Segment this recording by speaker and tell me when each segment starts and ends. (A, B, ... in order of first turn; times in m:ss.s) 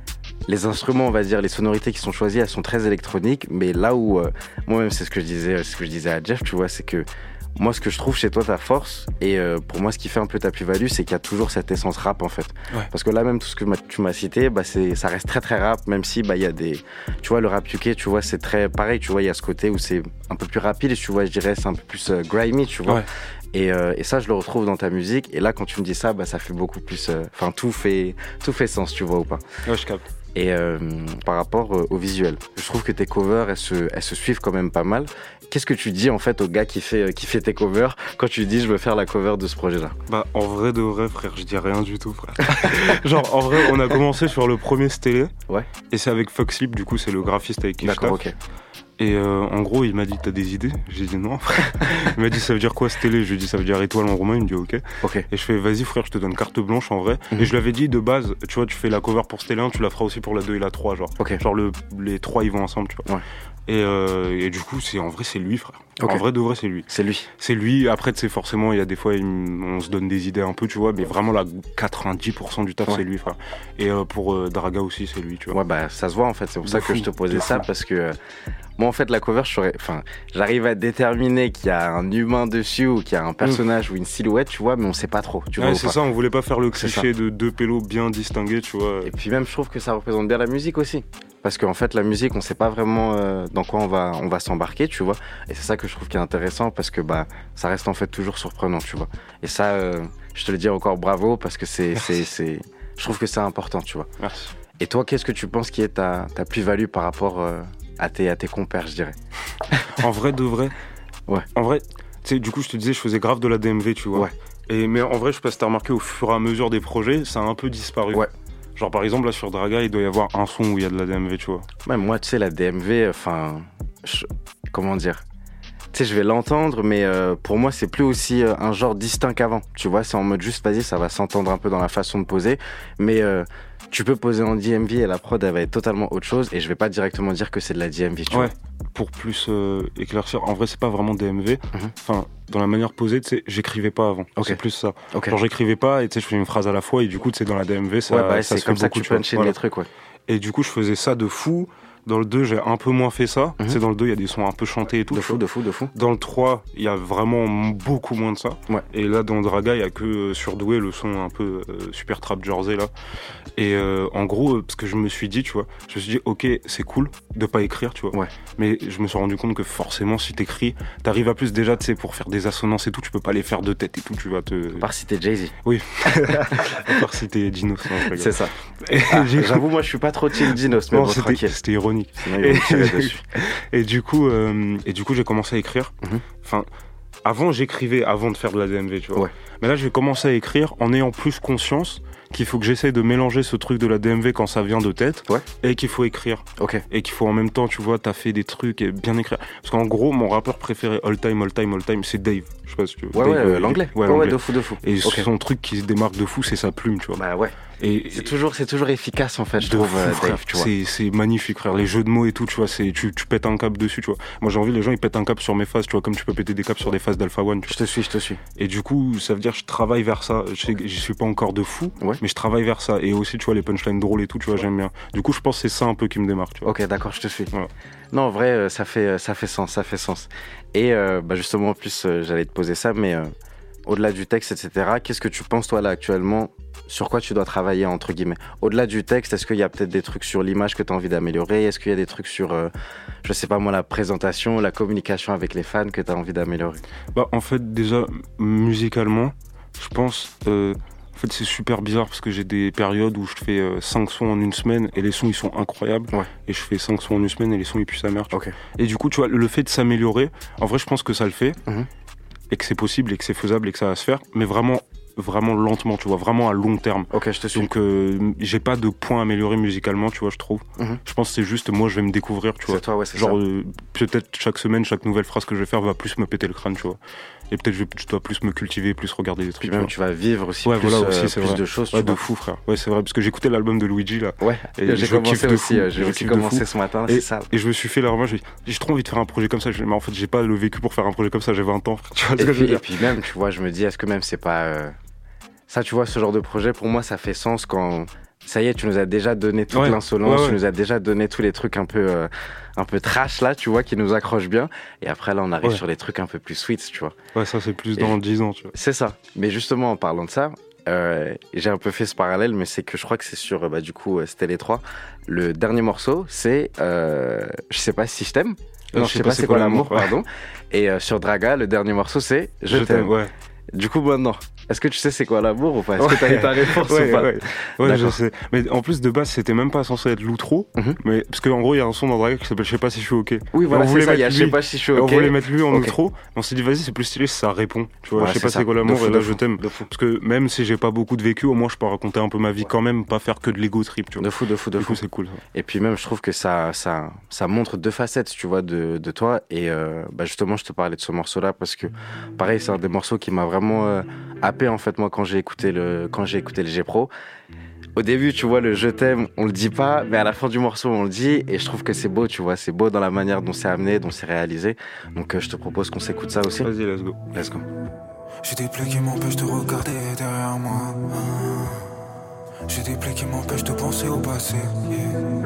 0:00.5-0:29.4 A
0:29.6-0:30.0 B
0:30.3-0:39.9 A
0:40.1-0:45.3 B
0:45.9-0:48.2 B
0:47.8-0:48.4 A
0:49.0-1:03.0 B
0:55.0-0:55.3 A
1:03.7-1:06.9 B
1:06.0-1:06.2 A
1:06.9-1:07.3 A
1:07.4-1:15.6 B
1:15.5-1:18.2 A
1:16.6-1:17.6 B
1:18.8-1:26.0 A
1:25.6-1:29.1 B
1:26.7-1:27.1 A
1:29.0-1:44.1 A
1:44.2-1:44.5 B
1:44.8-1:49.2 A
1:49.8-1:50.7 B
1:51.6-1:58.2 B
1:58.8-2:01.6 B
2:01.8-2:05.2 A
2:05.9-2:18.5 A
2:18.3-2:29.6 B
2:28.1-2:29.9 A
2:30.3-2:35.4 B
2:35.1-2:35.9 A
2:35.9-2:42.9 B
2:43.6-2:54.9 B
2:54.7-2:55.6 A
2:55.6-2:59.6 B
2:56.3-2:56.6 A
2:58.1-2:58.5 A
2:59.1-3:01.6 A
3:00.9-3:06.7 B
3:02.2-3:03.2 A
3:07.2-3:27.2 B
3:16.6-3:16.8 A
3:23.1-3:25.3 A
3:27.2-3:27.6 A
3:27.8-3:28.3 B
3:28.1-3:30.7 A
3:29.6-3:37.8 B
3:37.7-3:38.4 A
3:38.6-3:46.7 B
3:46.6-3:47.5 A
3:48.1-3:53.3 A
3:53.9-4:02.7 A
4:03.2-4:06.8 A
4:07.1-4:21.6 B
4:22.5-4:37.0 B
4:27.1-4:27.7 A
4:32.6-4:33.4 A
4:37.5-4:39.9 B
4:39.6-4:42.2 A
4:40.6-4:52.8 B
4:44.4-4:47.5 A
4:52.4-4:54.9 A
4:55.7-5:07.2 A
4:59.7-5:00.6 B
5:07.3-5:08.7 B
5:08.7-5:23.1 A
5:18.9-5:20.1 B
5:22.7-5:23.3 B
5:23.7-5:28.2 A
5:26.0-5:44.2 B
5:33.5-5:35.9 A
5:38.1-5:39.9 A
5:44.2-5:45.0 A
5:44.8-5:45.4 B
5:45.5-5:57.1 A
5:58.0-6:06.7 A
6:06.6-6:07.3 B
6:07.3-6:07.6 A
6:08.4-6:11.8 C
6:12.7-6:15.3 C